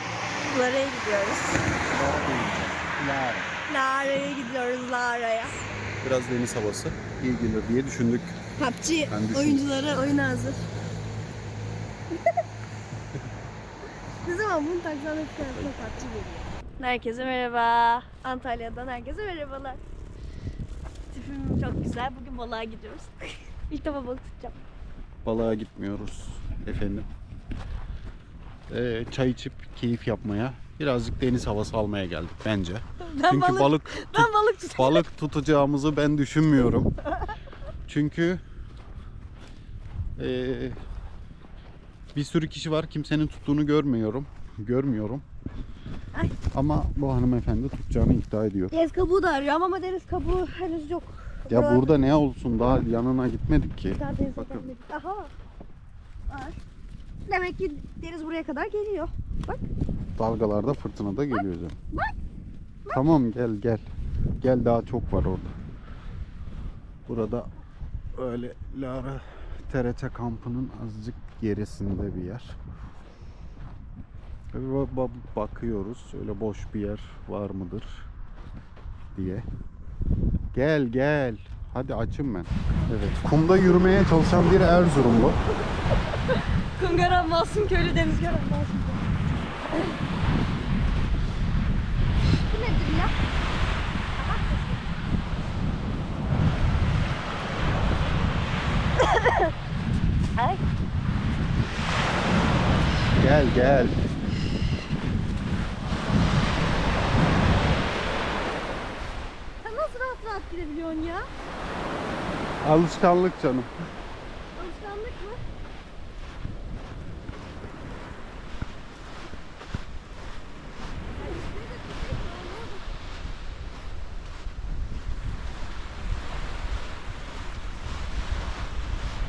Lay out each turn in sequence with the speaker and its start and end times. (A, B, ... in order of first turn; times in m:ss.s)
0:00.4-0:01.6 A
0:01.7-0:03.5 B
0:03.7-0:05.6 A
0:06.0-0:08.4 B
0:08.6-0:10.7 A
0:09.1-0:09.6 B
0:14.2-0:19.8 A
0:15.4-0:15.7 B
0:21.1-0:24.6 A
0:25.2-0:27.1 B
0:28.7-0:36.9 B
0:33.0-0:35.0 A
0:37.9-0:38.4 B
0:40.2-0:40.8 B
0:42.1-0:45.2 B
0:46.5-0:48.7 B
0:48.7-0:51.9 A
0:51.5-0:54.7 B
0:54.0-0:55.3 A
0:56.3-0:56.6 A
0:57.3-0:59.6 A
1:00.2-1:01.8 B
1:02.9-1:03.8 B
1:04.4-1:05.5 B
1:07.1-1:07.5 B
1:08.2-1:12.6 B
1:14.5-1:18.1 B
1:19.1-1:19.4 B
1:20.5-1:25.4 B
1:26.3-1:29.0 A
1:32.5-1:33.1 A
1:34.1-1:34.8 A
1:39.1-1:39.4 A
1:43.2-1:44.0 B
1:49.6-1:51.2 A
1:52.6-1:53.7 B
1:54.6-1:55.4 A
2:01.2-2:02.8 A